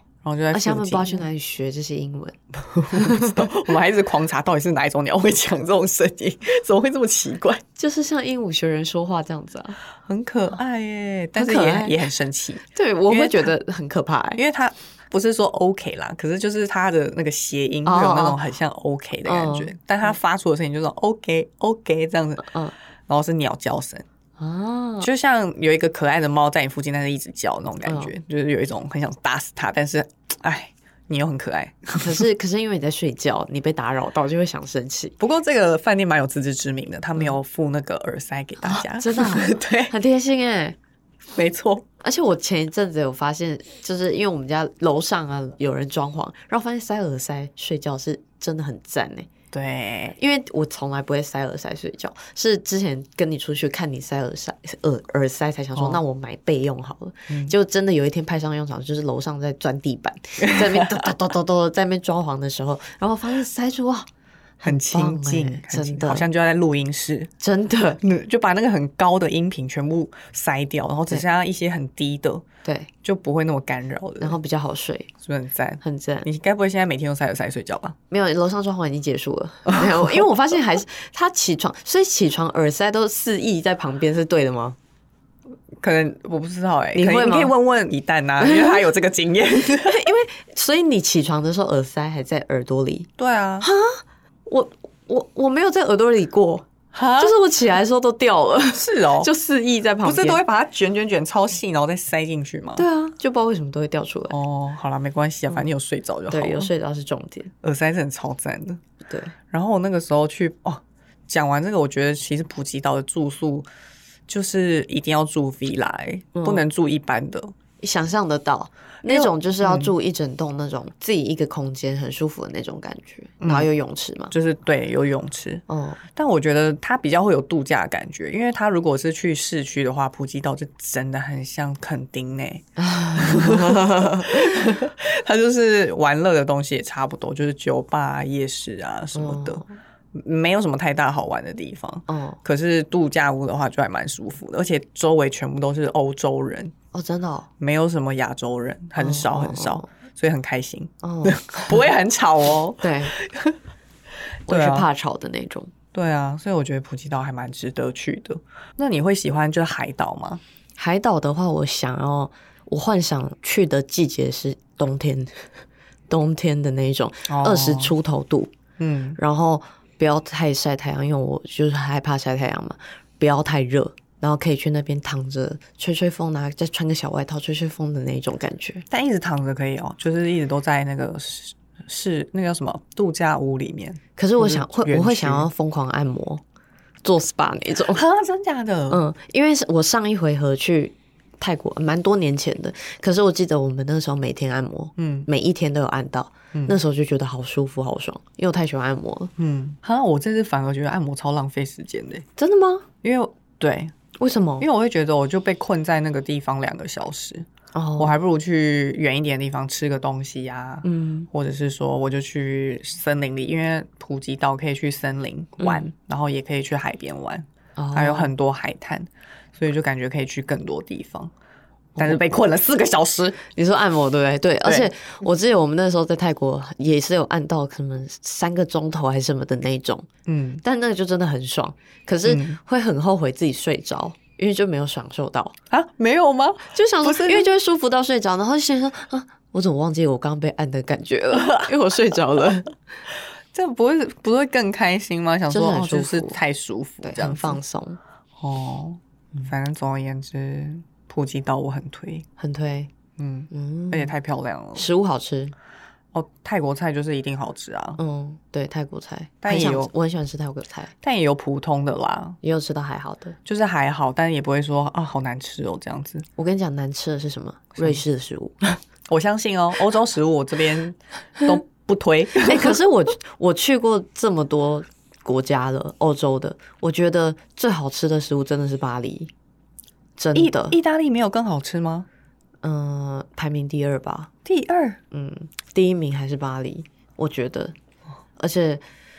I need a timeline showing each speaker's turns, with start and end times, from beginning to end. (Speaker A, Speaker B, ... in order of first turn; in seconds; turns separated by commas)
Speaker A: 0.2-1.2, Speaker B: 0.5-3.5, Speaker A: 2.7-7.6, Speaker B: 7.8-9.8, Speaker A: 10.1-13.5, Speaker B: 11.3-12.0, Speaker B: 12.7-14.4, Speaker A: 14.3-22.5, Speaker B: 17.9-18.4, Speaker B: 19.2-19.7, Speaker B: 22.4-22.7, Speaker A: 23.1-24.0, Speaker B: 24.4-25.1, Speaker A: 25.0-32.2, Speaker B: 27.9-28.1, Speaker B: 32.0-35.1, Speaker A: 35.2-39.9, Speaker B: 38.6-40.8, Speaker A: 41.3-41.8, Speaker B: 42.0-49.3, Speaker A: 49.5-50.1, Speaker B: 50.2-64.1, Speaker A: 55.7-56.0, Speaker A: 57.3-57.5, Speaker A: 60.4-61.1, Speaker B: 64.6-66.3, Speaker A: 64.6-67.3, Speaker B: 67.4-68.0, Speaker A: 68.0-72.4, Speaker A: 73.0-74.4, Speaker B: 74.2-75.1, Speaker A: 75.2-78.0, Speaker B: 75.8-76.2, Speaker B: 78.1-84.8, Speaker A: 85.8-90.0, Speaker B: 86.9-87.5, Speaker B: 88.4-88.8, Speaker B: 89.7-93.1, Speaker A: 93.2-93.7, Speaker B: 93.6-96.7, Speaker A: 96.9-97.3, Speaker B: 97.2-100.4, Speaker A: 98.7-99.3, Speaker A: 100.0-102.8, Speaker B: 102.8-104.3, Speaker A: 104.3-106.7, Speaker B: 106.3-107.5, Speaker A: 107.6-108.8, Speaker B: 109.1-109.3, Speaker A: 109.5-113.7, Speaker A: 114.3-117.5, Speaker B: 116.3-116.6, Speaker B: 117.8-124.3, Speaker A: 119.0-119.9, Speaker A: 123.4-123.7, Speaker A: 124.3-125.6, Speaker B: 125.7-126.0, Speaker A: 126.1-139.6, Speaker B: 132.8-134.7, Speaker B: 139.1-139.8, Speaker A: 140.1-146.7, Speaker B: 142.1-142.4, Speaker B: 146.9-147.5, Speaker A: 147.6-153.6, Speaker B: 149.0-149.8, Speaker B: 151.0-151.8, Speaker B: 152.8-153.1, Speaker B: 154.5-155.7, Speaker A: 154.5-154.9, Speaker A: 155.9-160.4, Speaker B: 160.8-165.4, Speaker B: 166.1-168.5, Speaker A: 167.3-167.9, Speaker A: 168.8-169.2, Speaker B: 169.2-178.8, Speaker A: 178.9-185.5, Speaker B: 184.2-186.4, Speaker B: 187.0-188.0, Speaker A: 187.9-189.0, Speaker B: 188.9-199.3, Speaker A: 195.0-195.3, Speaker A: 199.4-202.2, Speaker B: 202.4-202.9, Speaker A: 203.0-203.9, Speaker B: 204.2-204.7, Speaker A: 204.6-221.3, Speaker B: 207.7-208.1, Speaker B: 210.8-211.3, Speaker B: 215.6-215.9, Speaker B: 217.8-218.3, Speaker B: 221.9-222.2, Speaker A: 222.0-223.4, Speaker B: 223.4-230.1, Speaker A: 224.6-224.9, Speaker A: 230.2-230.6, Speaker B: 230.6-235.5, Speaker A: 232.2-232.6, Speaker A: 235.7-237.5, Speaker B: 236.7-242.7, Speaker A: 241.3-242.4, Speaker A: 243.5-247.6, Speaker B: 245.5-246.4, Speaker B: 247.0-248.0, Speaker A: 248.4-252.2, Speaker B: 252.4-252.9, Speaker A: 253.2-254.9, Speaker B: 253.5-254.1, Speaker B: 254.7-255.5, Speaker A: 256.1-258.0, Speaker B: 258.0-260.9, Speaker A: 259.4-259.9, Speaker A: 261.0-262.4, Speaker B: 262.4-263.4, Speaker A: 263.4-266.2, Speaker B: 266.4-268.8, Speaker A: 269.1-272.8, Speaker B: 272.4-279.3, Speaker B: 280.2-280.8, Speaker A: 280.3-282.1, Speaker B: 282.6-284.3, Speaker A: 284.4-285.0, Speaker B: 285.1-287.7, Speaker B: 288.4-288.8